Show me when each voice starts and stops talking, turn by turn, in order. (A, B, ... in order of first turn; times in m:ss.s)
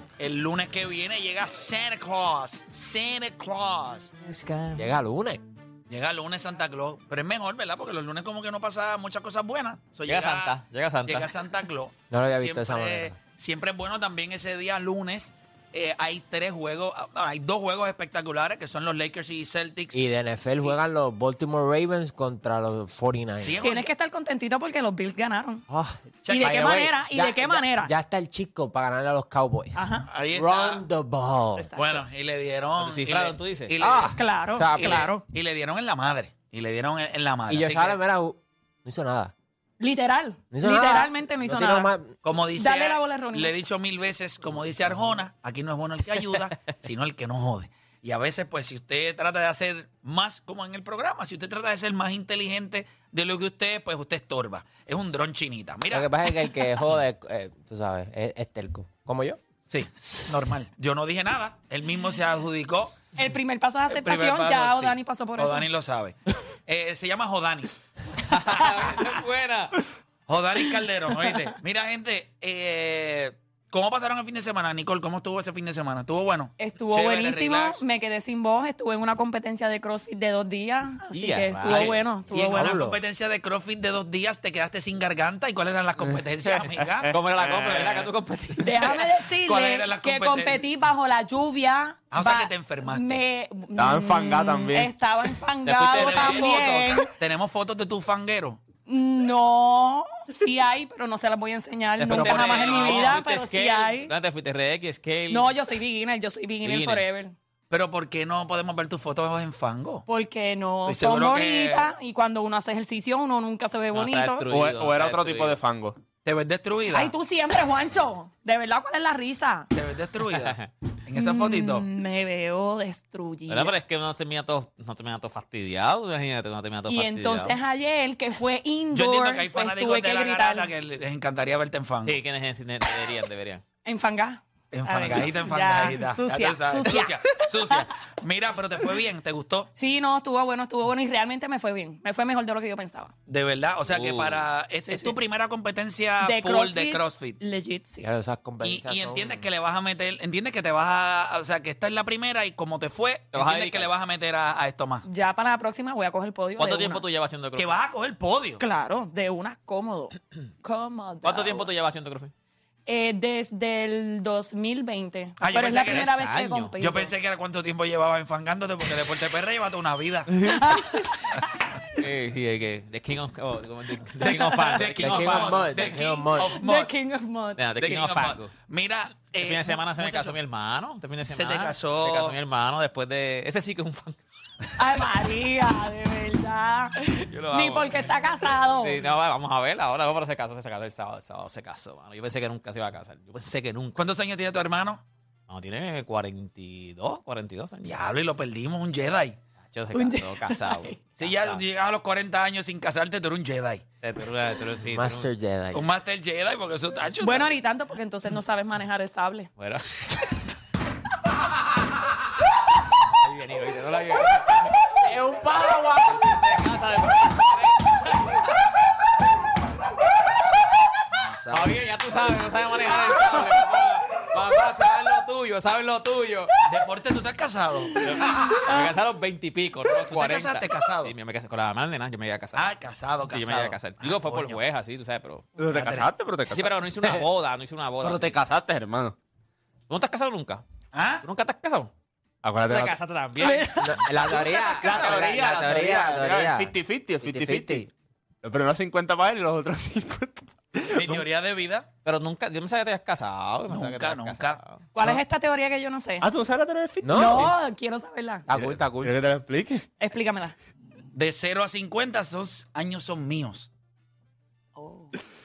0:00.2-0:04.1 A
0:04.2-0:04.9 B
0:04.8-0:05.4 C
0:05.9-0:20.0 A
0:10.1-0:11.3 B
0:12.1-0:13.2 C
0:19.9-0:23.6 C
0:23.4-0:23.9 A
0:23.6-0:25.6 D
0:25.7-0:31.7 C
0:26.2-0:26.8 A
0:26.3-0:27.9 D
0:29.8-0:30.1 D
0:30.1-0:30.8 A
0:31.6-0:32.0 D
0:31.8-0:34.2 A
0:32.8-0:33.7 B
0:33.8-0:35.1 C
0:34.1-0:35.2 D
0:34.7-0:38.0 A
0:37.5-0:39.3 C
0:39.8-0:41.9 D
0:40.5-0:42.2 C
0:42.2-0:56.1 A
0:42.6-0:43.5 D
0:55.9-0:59.4 C
0:59.7-1:03.1 A
1:03.2-1:05.6 D
1:03.9-1:07.8 A
1:08.3-1:09.8 B
1:08.8-1:09.1 A
1:10.3-1:17.8 A
1:16.6-1:22.6 D
1:21.1-1:22.0 B
1:21.7-1:27.1 A
1:22.4-1:23.0 C
1:26.0-1:28.0 E
1:27.1-1:29.0 B
1:27.6-1:28.0 A
1:28.6-1:37.1 D
1:29.4-1:30.6 A
1:32.1-1:33.2 A
1:33.7-1:34.9 E
1:35.6-1:36.8 B
1:35.9-1:38.6 A
1:38.9-1:44.1 D
1:42.0-1:45.6 B
1:42.1-1:43.2 A
1:45.3-1:47.3 D
1:46.6-1:47.0 B
1:47.7-1:50.0 A
1:50.1-1:54.4 D
1:50.8-1:51.9 A
1:53.9-1:55.6 B
1:54.5-1:56.0 E
1:56.2-1:57.1 A
1:56.9-1:59.7 D
1:59.7-2:01.8 A
2:00.3-2:00.7 B
2:01.1-2:03.7 D
2:03.5-2:07.6 B
2:06.9-2:10.7 D
2:08.9-2:12.2 A
2:12.0-2:13.6 B
2:13.8-2:17.8 D
2:14.7-2:19.7 A
2:19.7-2:23.1 D
2:23.3-2:27.4 A
2:23.9-2:24.4 B
2:24.9-2:25.1 D
2:26.2-2:28.1 D
2:28.0-2:29.5 C
2:28.6-2:35.0 A
2:33.3-2:33.9 B
2:35.0-2:37.0 D
2:36.6-2:37.8 B
2:37.6-2:38.6 A
2:38.6-2:41.7 D
2:41.2-2:42.3 B
2:42.9-2:47.1 D
2:45.4-2:46.1 A
2:45.6-2:46.7 B
2:46.8-2:50.4 A
2:50.4-2:51.4 D
2:52.0-2:56.0 B
2:54.2-2:54.8 D
2:54.8-2:56.9 A
2:55.0-2:56.6 C
2:56.4-2:57.6 D
2:57.6-2:58.5 B
2:57.8-2:59.8 A
2:59.4-3:04.2 B
3:01.3-3:02.4 A
3:04.8-3:09.0 D
3:07.2-3:08.1 B
3:08.7-3:14.0 B
3:14.0-3:15.0 A
3:15.5-3:18.0 B
3:17.8-3:19.4 A
3:19.7-3:21.6 B
3:19.9-3:21.0 D
3:21.2-3:23.8 A
3:24.0-3:25.3 B
3:24.9-3:25.9 C
3:25.7-3:27.5 A
3:27.2-3:29.5 D
3:29.6-3:30.4 B
3:33.2-3:35.0 B
3:35.0-3:36.3 C
3:36.1-3:38.5 B
3:41.1-3:41.8 A
3:41.5-3:46.6 B
3:46.6-3:48.1 A
3:48.0-3:52.7 B
3:50.1-3:51.1 A
3:52.6-3:54.6 A
3:53.2-3:55.5 B
3:55.6-3:57.2 E
3:55.7-3:56.1 A
3:56.5-3:58.4 B
3:58.0-3:59.1 E
3:59.9-4:00.6 B
4:00.9-4:01.2 A
4:01.2-4:01.9 B
4:02.4-4:03.0 E
4:02.6-4:05.6 B
4:03.4-4:04.0 D
4:03.8-4:07.9 C
4:04.3-4:07.9 E
4:08.4-4:11.2 E
4:10.9-4:11.9 A
4:12.0-4:14.8 B
4:13.7-4:14.6 A
4:14.9-4:16.3 D
4:16.2-4:17.5 E
4:17.0-4:17.5 C
4:17.1-4:18.5 D
4:18.5-4:19.1 C
4:18.5-4:19.8 E
4:20.0-4:20.5 D
4:21.1-4:23.7 A
4:24.8-4:25.1 D